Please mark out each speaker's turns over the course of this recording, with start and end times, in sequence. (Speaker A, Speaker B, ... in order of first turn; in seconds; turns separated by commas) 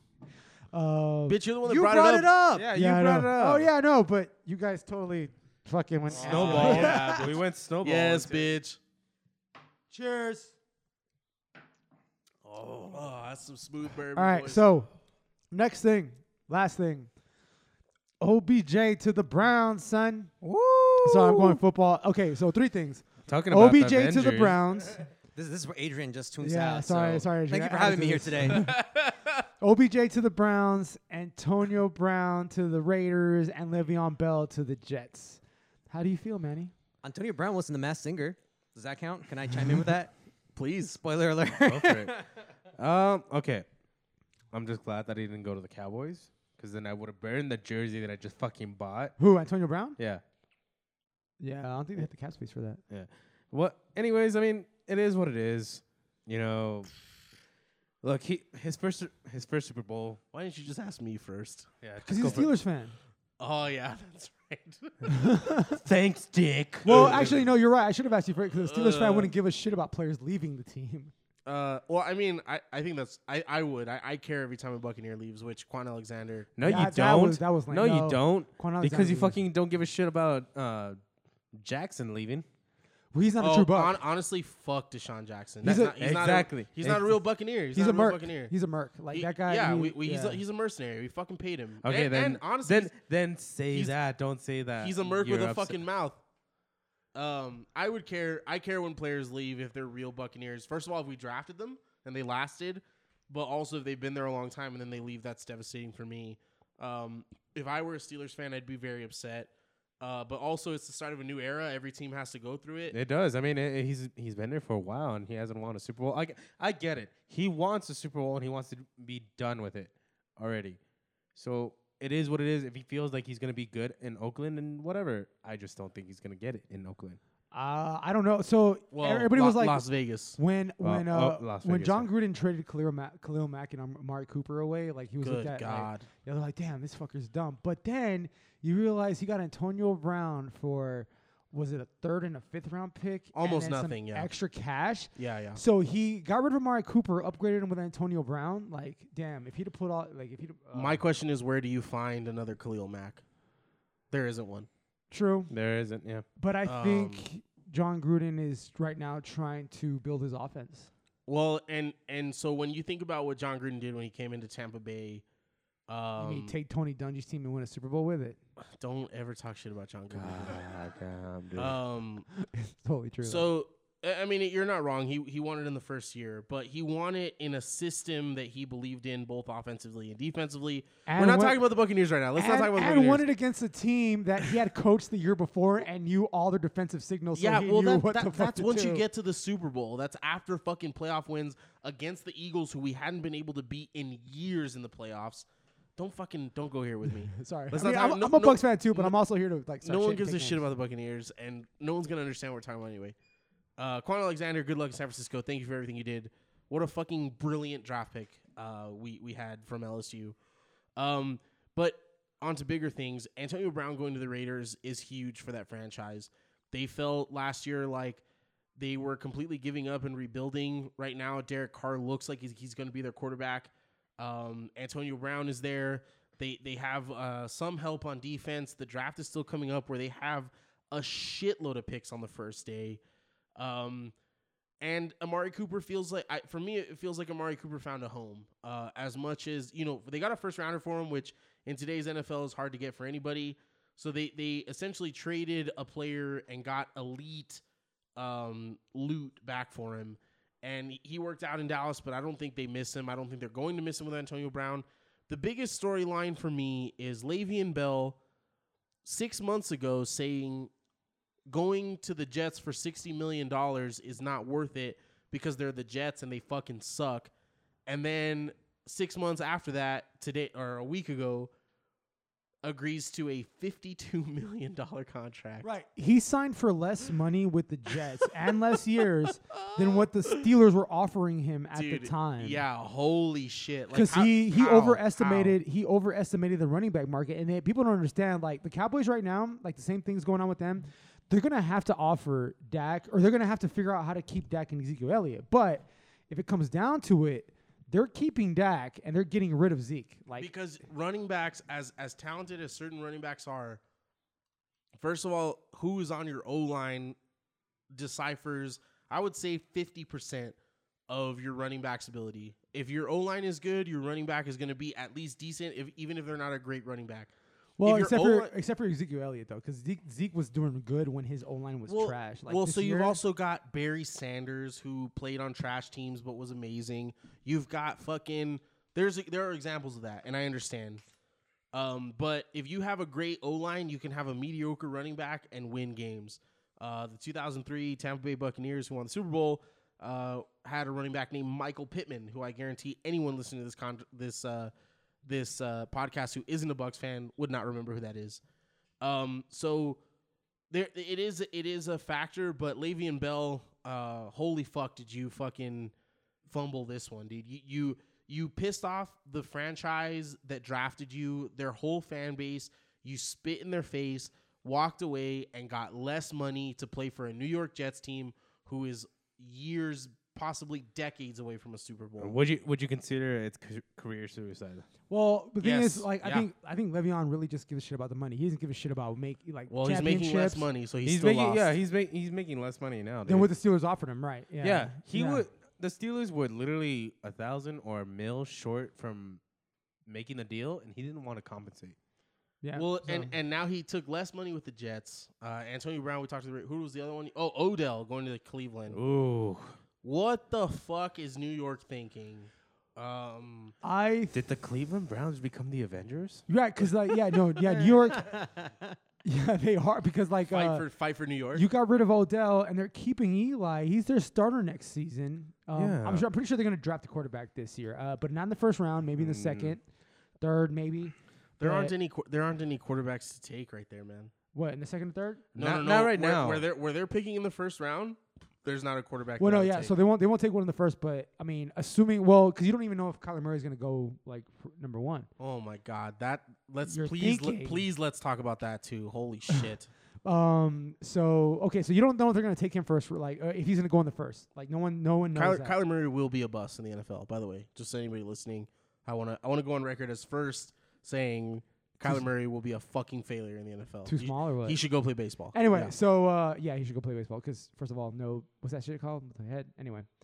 Speaker A: 0.7-1.4, Speaker B: 1.3-2.3, Speaker C: 1.6-2.7, Speaker D: 2.5-3.7, Speaker A: 2.7-7.2, Speaker D: 6.1-8.5, Speaker B: 6.1-8.8, Speaker C: 6.2-6.9, Speaker A: 9.9-10.5, Speaker B: 12.5-14.6, Speaker A: 14.2-14.9, Speaker A: 15.5-17.1, Speaker A: 18.2-20.4, Speaker D: 20.4-21.6, Speaker A: 21.0-25.1, Speaker D: 23.3-24.6, Speaker C: 25.4-28.7, Speaker A: 26.4-28.9, Speaker A: 29.6-36.7, Speaker C: 37.0-40.1, Speaker B: 40.5-41.0, Speaker C: 41.0-42.4, Speaker D: 41.7-42.1, Speaker D: 42.8-43.7, Speaker D: 44.5-49.2, Speaker A: 49.2-50.0, Speaker A: 51.4-52.8, Speaker D: 52.9-56.9, Speaker D: 58.0-60.2, Speaker B: 60.3-62.5, Speaker D: 61.8-62.5, Speaker A: 62.0-63.0, Speaker B: 63.4-65.3, Speaker A: 65.1-65.8, Speaker D: 65.8-67.4, Speaker B: 66.9-67.4, Speaker A: 66.9-71.1, Speaker B: 68.5-69.3, Speaker B: 71.5-76.5, Speaker D: 76.6-81.0, Speaker A: 76.6-79.4, Speaker D: 81.5-82.5, Speaker A: 83.1-84.0, Speaker B: 83.4-88.5, Speaker A: 85.6-86.0, Speaker D: 85.6-87.1, Speaker A: 87.7-90.4, Speaker B: 89.1-93.0, Speaker D: 91.8-95.8, Speaker B: 93.7-94.0, Speaker B: 94.8-96.2, Speaker B: 97.2-113.0, Speaker D: 112.9-120.8, Speaker D: 121.3-127.2, Speaker A: 127.5-129.8, Speaker B: 128.9-130.4, Speaker A: 130.4-151.0, Speaker D: 130.8-132.1, Speaker B: 135.2-136.1, Speaker B: 143.3-144.3, Speaker B: 145.2-145.6, Speaker B: 150.7-153.2, Speaker B: 154.1-154.7, Speaker A: 155.1-155.5, Speaker D: 155.5-156.2, Speaker A: 156.4-160.9, Speaker B: 156.7-157.3, Speaker B: 161.3-165.2, Speaker B: 165.9-166.6, Speaker A: 166.2-168.4, Speaker B: 168.8-170.7, Speaker D: 170.1-171.8, Speaker B: 171.5-172.3, Speaker A: 172.4-173.5, Speaker B: 173.2-183.3, Speaker A: 181.1-181.6, Speaker A: 182.4-189.1, Speaker B: 187.3-199.2, Speaker A: 197.3-200.6, Speaker B: 199.8-203.2, Speaker B: 203.8-210.3, Speaker B: 211.0-218.2, Speaker B: 218.8-233.0, Speaker B: 233.6-234.1, Speaker B: 234.8-247.6, Speaker B: 248.2-258.2, Speaker B: 259.0-260.7, Speaker B: 261.5-267.3, Speaker B: 267.9-271.5, Speaker B: 272.6-275.7, Speaker A: 275.6-282.6, Speaker B: 279.5-280.5, Speaker B: 281.7-285.6, Speaker A: 283.9-300.5, Speaker B: 300.4-303.8, Speaker B: 305.0-307.2, Speaker B: 307.9-310.6, Speaker B: 311.1-318.5, Speaker A: 317.8-323.2, Speaker B: 321.9-331.0, Speaker B: 331.7-344.7, Speaker B: 345.2-348.4, Speaker B: 349.0-350.0, Speaker B: 350.7-355.9, Speaker B: 356.5-372.4, Speaker D: 372.2-374.9, Speaker A: 375.1-380.7, Speaker B: 375.6-376.5, Speaker B: 379.7-381.8, Speaker D: 381.0-383.5, Speaker A: 383.3-385.4, Speaker D: 384.6-389.4, Speaker D: 390.1-392.0, Speaker A: 392.6-393.3, Speaker B: 392.8-399.0, Speaker D: 398.9-399.8, Speaker B: 400.0-403.8, Speaker A: 403.8-404.4, Speaker D: 404.3-406.4, Speaker A: 406.5-408.5, Speaker C: 408.2-409.0, Speaker A: 409.2-410.9, Speaker B: 410.5-411.7, Speaker A: 411.6-419.8, Speaker D: 415.8-416.3, Speaker D: 419.2-419.8, Speaker A: 420.4-421.9, Speaker B: 421.6-424.3, Speaker A: 424.5-425.5, Speaker B: 425.6-429.9, Speaker D: 425.6-426.7, Speaker A: 429.4-435.3, Speaker B: 435.4-439.9, Speaker A: 436.9-437.9, Speaker A: 440.2-445.8, Speaker B: 445.3-455.9, Speaker A: 454.1-454.8, Speaker A: 455.5-460.1